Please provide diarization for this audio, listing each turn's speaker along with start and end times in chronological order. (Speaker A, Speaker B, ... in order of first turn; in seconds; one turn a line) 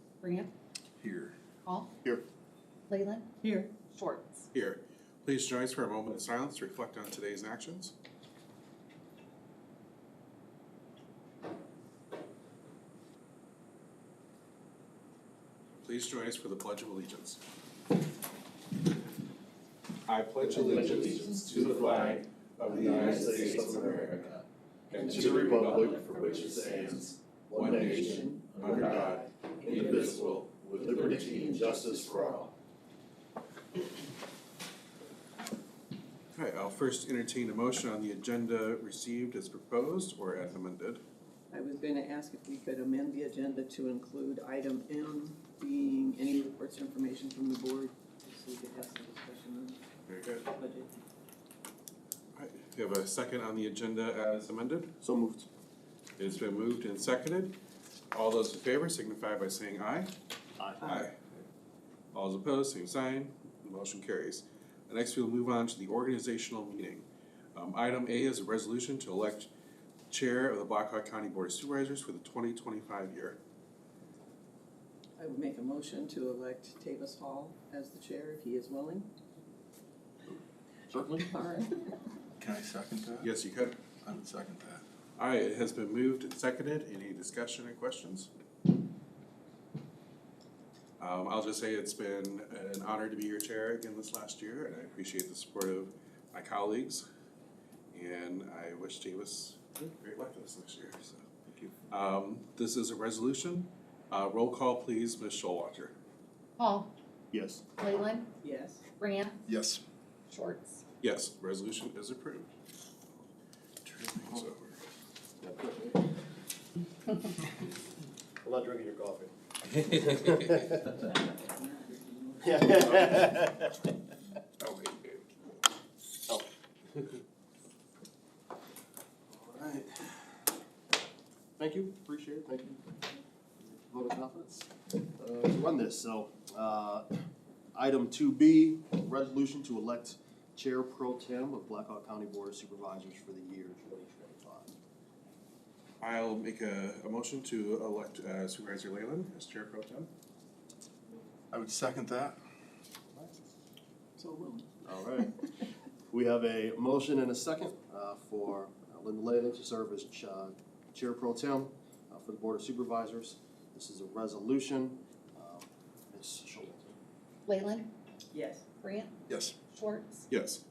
Speaker A: 0.2-0.5
Speaker B: 1.0-1.4
Speaker A: 1.6-1.9
Speaker A: 2.9-4.5
Speaker C: 3.4-3.7
Speaker B: 4.5-7.9
Speaker B: 15.8-17.4
Speaker B: 20.1-24.3
Speaker D: 22.6-24.2
Speaker B: 24.9-26.6
Speaker D: 24.9-32.5
Speaker B: 27.5-29.2
Speaker C: 27.6-32.5
Speaker B: 29.9-30.4
Speaker B: 36.3-41.0
Speaker C: 41.5-49.8
Speaker B: 50.1-50.4
Speaker C: 50.5-51.0
Speaker B: 52.3-54.9
Speaker D: 55.0-55.5
Speaker B: 56.2-57.5
Speaker B: 58.1-60.1
Speaker B: 60.8-61.2
Speaker B: 62.1-69.5
Speaker B: 70.1-73.4
Speaker C: 75.2-79.1
Speaker D: 80.9-81.3
Speaker C: 81.3-81.7
Speaker E: 82.4-83.3
Speaker B: 83.2-83.8
Speaker E: 84.0-84.8
Speaker B: 85.2-88.3
Speaker B: 91.0-97.0
Speaker B: 97.9-105.9
Speaker A: 106.6-106.9
Speaker D: 107.3-107.6
Speaker A: 107.8-108.3
Speaker C: 108.4-108.8
Speaker A: 109.0-109.4
Speaker E: 109.5-109.8
Speaker A: 110.3-110.8
Speaker B: 111.0-112.5
Speaker B: 113.8-114.7
Speaker D: 115.4-116.0
Speaker D: 118.4-119.3
Speaker D: 119.8-120.7
Speaker C: 120.9-123.2
Speaker D: 122.4-123.7
Speaker B: 124.6-125.2
Speaker D: 129.3-130.2
Speaker D: 131.6-133.0
Speaker D: 133.6-137.2
Speaker D: 137.7-144.7
Speaker B: 146.0-150.1
Speaker E: 151.5-152.4
Speaker C: 154.2-154.7
Speaker D: 154.8-155.3
Speaker D: 156.1-167.0
Speaker A: 167.5-167.9
Speaker C: 168.3-168.6
Speaker A: 168.8-170.3
Speaker B: 170.3-170.6